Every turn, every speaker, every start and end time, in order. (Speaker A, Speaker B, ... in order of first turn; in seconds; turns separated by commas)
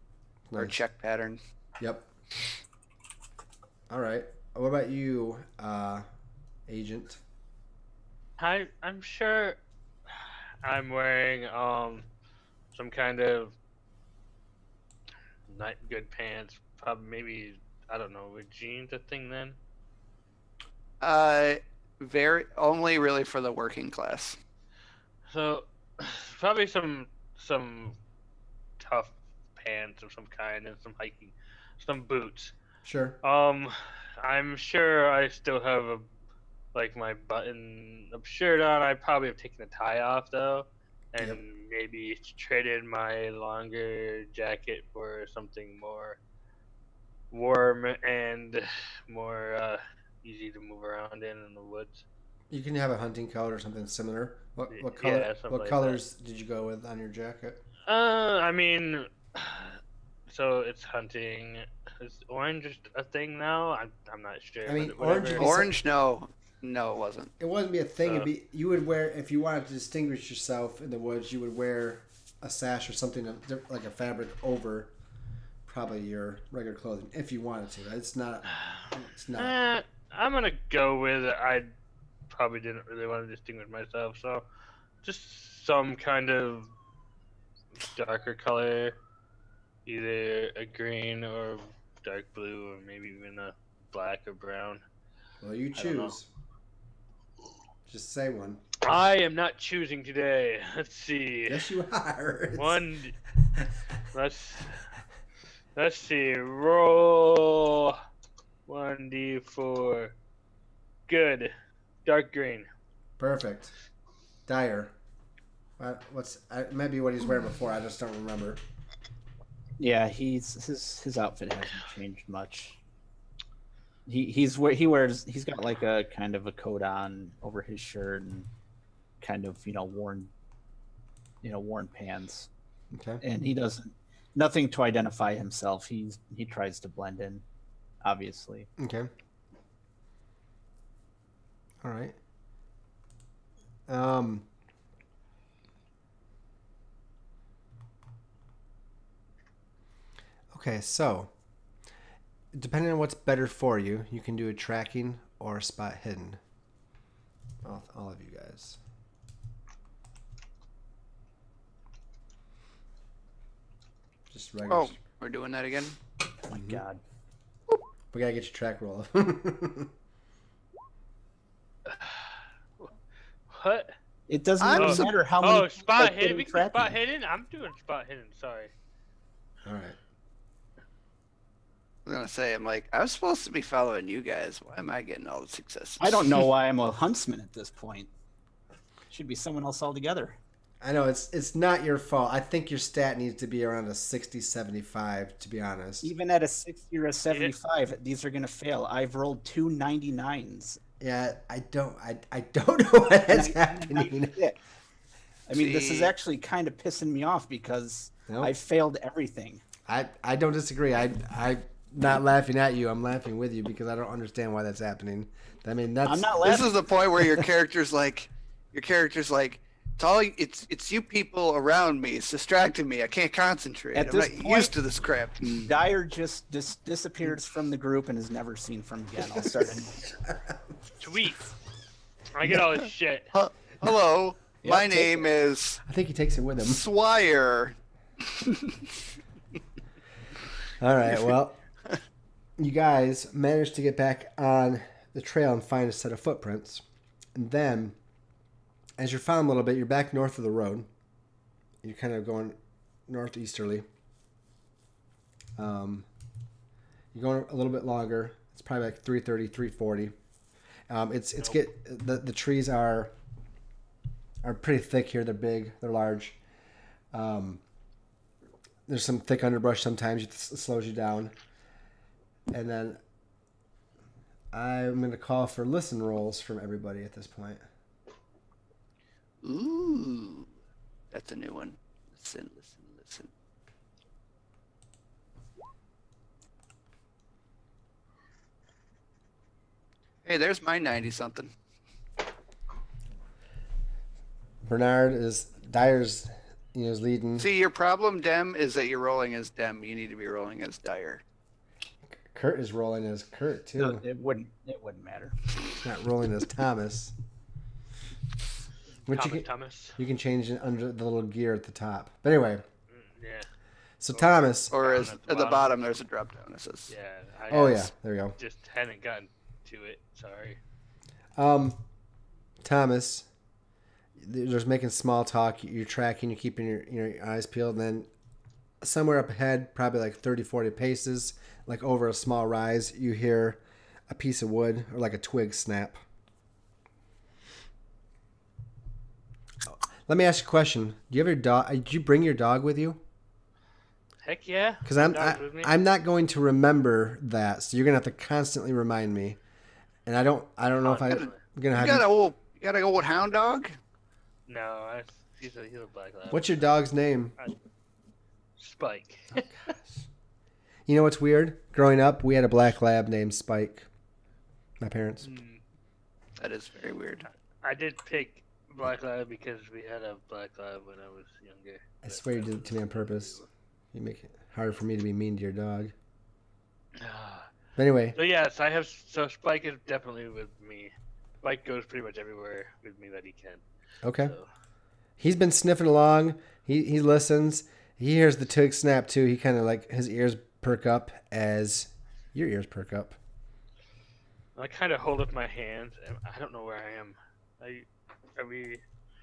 Speaker A: 0.5-0.8, Speaker B: 0.6-1.4, Speaker A: 1.8-2.1, Speaker A: 3.9-6.1, Speaker A: 6.7-7.2, Speaker C: 8.4-9.6, Speaker C: 10.6-12.1, Speaker C: 12.7-13.5, Speaker C: 15.5-19.6, Speaker B: 21.0-24.4, Speaker C: 25.3-28.0, Speaker C: 28.8-32.5, Speaker A: 32.8-33.2, Speaker C: 33.2-36.1, Speaker C: 36.7-46.2, Speaker C: 47.3-52.0, Speaker A: 52.5-57.6, Speaker C: 54.7-56.0, Speaker C: 57.9-65.6, Speaker A: 64.7-65.7, Speaker B: 65.3-67.3, Speaker A: 67.4-74.9, Speaker A: 75.7-79.6, Speaker C: 79.4-81.7, Speaker C: 82.3-84.5, Speaker C: 85.0-86.7, Speaker C: 87.8-89.0, Speaker C: 89.9-94.8, Speaker A: 95.4-96.3, Speaker C: 95.8-96.1, Speaker A: 97.9-98.6, Speaker C: 98.8-101.6, Speaker A: 101.5-102.8, Speaker C: 102.5-103.2, Speaker C: 104.1-104.8, Speaker C: 105.7-108.0, Speaker C: 108.7-110.1, Speaker C: 111.1-111.5, Speaker C: 112.0-112.7, Speaker A: 113.2-113.7, Speaker A: 114.5-114.9, Speaker A: 115.8-118.6, Speaker D: 119.8-122.8, Speaker D: 124.1-128.5, Speaker D: 129.2-130.3, Speaker D: 131.4-132.5, Speaker A: 132.9-133.2, Speaker D: 133.2-137.4, Speaker D: 138.0-138.7, Speaker A: 138.8-139.1, Speaker A: 141.8-142.2, Speaker A: 143.9-144.5, Speaker A: 150.5-151.3, Speaker A: 152.5-156.4, Speaker A: 157.6-158.8, Speaker A: 164.3-165.0, Speaker B: 164.7-166.0, Speaker D: 166.5-167.0, Speaker A: 166.5-166.8, Speaker A: 168.1-169.9, Speaker C: 171.9-172.3, Speaker C: 173.5-173.9, Speaker D: 174.3-176.9, Speaker A: 174.6-175.0, Speaker B: 174.7-175.1, Speaker C: 174.8-178.7, Speaker A: 179.6-179.9, Speaker B: 182.1-186.3, Speaker D: 186.0-188.1, Speaker D: 189.1-190.4, Speaker A: 190.8-196.1, Speaker D: 196.0-200.8, Speaker A: 201.0-204.3, Speaker D: 203.3-204.6, Speaker D: 205.5-209.6, Speaker B: 205.6-206.1, Speaker A: 209.9-216.3, Speaker D: 216.1-216.7, Speaker B: 216.4-225.6, Speaker D: 223.9-224.7, Speaker D: 225.5-230.0, Speaker A: 230.3-230.5, Speaker C: 231.0-231.5, Speaker C: 232.3-233.3, Speaker B: 233.3-235.8, Speaker D: 234.6-235.2, Speaker A: 235.9-236.8, Speaker B: 236.7-237.7, Speaker B: 238.3-238.7, Speaker A: 240.8-241.6, Speaker A: 242.6-246.8, Speaker A: 247.3-248.0, Speaker A: 249.0-250.9, Speaker A: 251.8-253.9, Speaker A: 255.6-256.1, Speaker A: 257.1-260.1, Speaker A: 260.9-263.1, Speaker A: 264.4-266.4, Speaker A: 267.1-267.6, Speaker A: 268.9-271.3, Speaker A: 272.5-273.0, Speaker A: 274.5-277.6, Speaker B: 279.4-280.5, Speaker B: 281.1-283.3, Speaker B: 290.2-291.5, Speaker A: 294.6-297.5, Speaker B: 297.4-301.2, Speaker A: 302.3-304.0, Speaker D: 303.8-305.4, Speaker A: 305.8-307.1, Speaker A: 309.1-312.6, Speaker C: 309.1-310.0, Speaker C: 312.9-313.5, Speaker A: 314.0-314.7, Speaker C: 314.1-315.7, Speaker B: 314.7-316.9, Speaker C: 316.9-320.6, Speaker A: 317.5-318.4, Speaker A: 321.4-321.8, Speaker A: 322.6-323.3, Speaker A: 324.2-328.1, Speaker A: 328.8-336.0, Speaker A: 339.7-343.0, Speaker C: 344.2-345.7, Speaker A: 344.9-349.4, Speaker A: 350.1-352.1, Speaker C: 350.8-351.4, Speaker B: 351.1-353.8, Speaker C: 354.5-356.6, Speaker A: 356.3-357.4, Speaker C: 358.6-359.5, Speaker A: 360.9-363.9, Speaker A: 364.8-365.3, Speaker C: 365.2-365.6, Speaker B: 366.4-367.2, Speaker C: 367.6-373.0, Speaker A: 372.0-373.4, Speaker A: 373.9-375.9, Speaker C: 377.0-377.5, Speaker A: 377.8-378.2, Speaker C: 378.1-383.6, Speaker A: 384.0-384.4, Speaker C: 384.2-384.4, Speaker A: 385.2-393.2, Speaker C: 394.6-398.8